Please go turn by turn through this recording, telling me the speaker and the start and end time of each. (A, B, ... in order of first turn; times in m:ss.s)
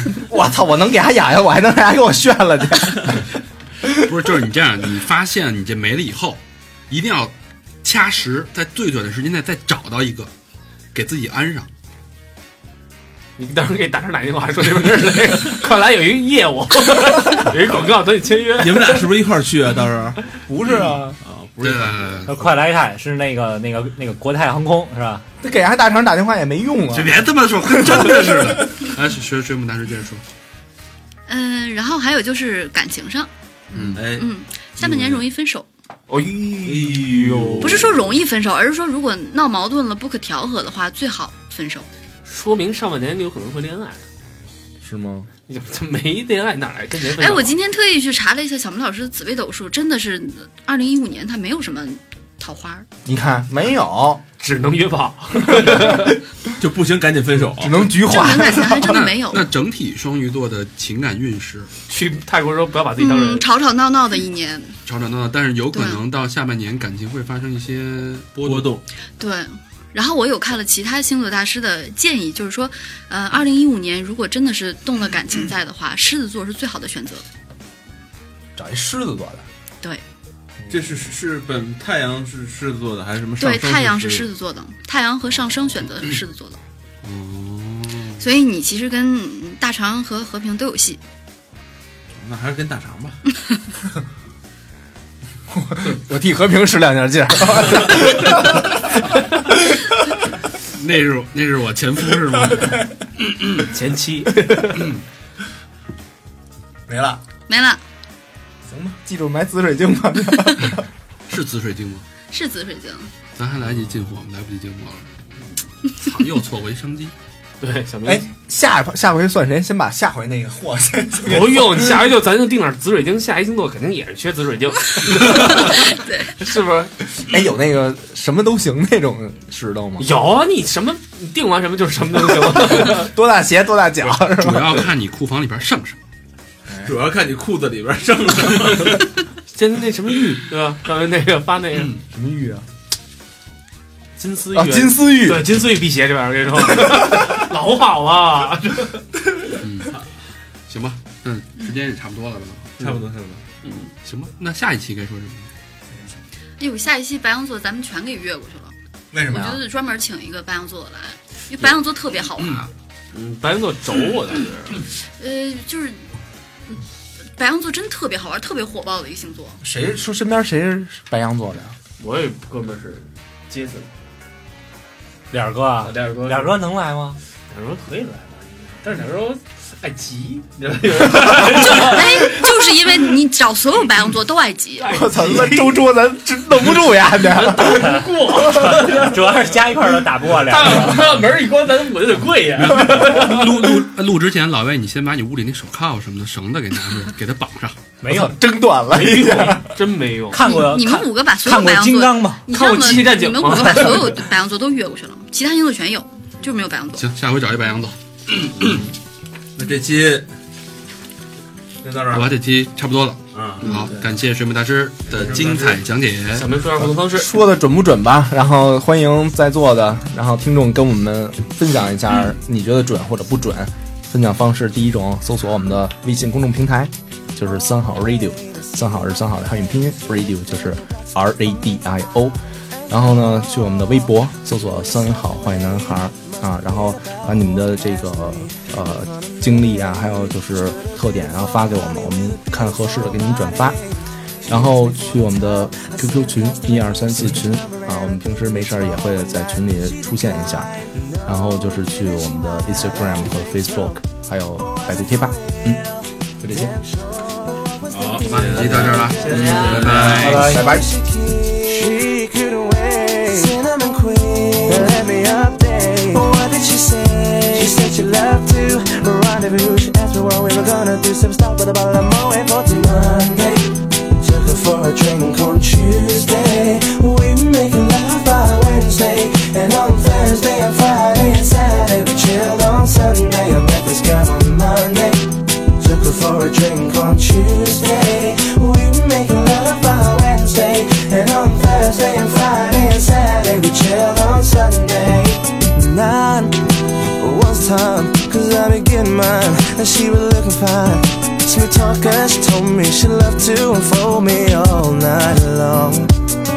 0:00.2-0:03.2 A
0:04.0-0:10.3 B
0:10.9-0:11.7 B
0:13.4-0:19.1 C
0:18.6-0:22.4 D
0:20.5-0:21.2 A
0:21.6-0:22.3 B
0:22.3-0:25.2 E
0:25.4-0:28.7 A
0:26.9-0:30.2 B
0:31.3-0:33.3 F
0:33.7-0:34.0 B
0:33.8-0:35.7 F
0:33.9-0:34.3 D
0:36.1-0:38.0 C
0:36.6-0:38.1 D
0:37.6-0:41.9 F
0:42.3-0:44.0 C
0:44.8-0:45.3 A
0:45.5-0:47.6 C
0:47.2-0:52.9 F
0:53.0-0:54.2 A
0:54.4-0:56.2 C
0:55.5-0:55.9 A
0:56.6-0:57.9 D
0:57.6-0:58.9 A
0:58.0-0:59.5 F
0:58.8-1:01.7 B
1:01.9-1:03.5 C
1:03.0-1:04.8 F
1:04.9-1:08.7 B
1:05.7-1:06.0 F
1:08.4-1:08.8 D
1:09.2-1:17.2 F
1:18.6-1:19.4 A
1:20.7-1:21.0 A
1:20.7-1:24.3 D
1:23.4-1:26.6 F
1:27.0-1:28.2 B
1:28.2-1:31.0 F
1:32.2-1:33.2 D
1:35.5-1:38.9 A
1:39.5-1:39.9 A
1:40.7-1:42.9 B
1:43.4-1:43.7 B
1:43.6-1:44.9 C
1:44.8-1:45.0 B
1:46.9-1:47.2 A
1:47.5-1:47.8 F
1:48.7-1:50.8 A
1:51.3-1:52.0 B
1:52.3-1:53.1 F
1:53.4-1:55.1 B
1:55.9-1:57.1 B
1:57.6-1:58.3 C
1:58.0-2:02.0 A
2:01.2-2:06.9 C
2:05.3-2:06.4 F
2:07.3-2:10.1 A
2:10.0-2:13.1 C
2:12.5-2:14.9 A
2:14.3-2:16.0 B
2:16.8-2:19.1 D
2:19.5-2:21.9 C
2:22.1-2:22.6 A
2:24.2-2:29.0 C
2:24.5-2:25.5 A
2:29.6-2:30.0 B
2:30.7-2:32.9 B
2:32.8-2:33.4 D
2:33.6-2:33.9 C
2:34.0-2:35.5 B
2:36.6-2:42.7 F
2:39.1-2:39.6 A
2:43.1-2:44.8 C
2:45.2-2:46.0 F
2:47.4-2:49.6 F
2:49.6-2:51.8 A
2:52.0-2:53.9 C
2:55.3-2:57.2 E
2:55.8-2:56.6 C
2:57.5-3:02.4 C
3:01.4-3:05.0 F
3:04.8-3:05.8 C
3:04.9-3:08.0 A
3:07.1-3:09.4 C
3:08.8-3:11.1 E
3:10.3-3:13.9 C
3:12.6-3:17.8 B
3:18.0-3:18.4 E
3:18.1-3:19.7 A
3:18.9-3:20.4 C
3:20.3-3:22.5 E
3:20.4-3:27.0 F
3:22.5-3:24.2 C
3:27.0-3:28.9 B
3:29.6-3:30.3 D
3:31.8-3:32.3 D
3:32.1-3:36.5 B
3:33.3-3:34.2 D
3:35.1-3:35.9 D
3:36.4-3:37.3 C
3:37.0-3:52.4 A
3:52.9-4:03.8 A
4:04.4-4:10.7 A
4:11.2-4:15.8 A
4:16.4-4:16.8 A
4:17.9-4:20.5 D
4:18.2-4:20.5 B
4:19.2-4:20.0 C
4:20.1-4:20.7 E
4:20.3-4:20.9 A
4:20.7-4:56.6 G
4:57.2-5:06.1 G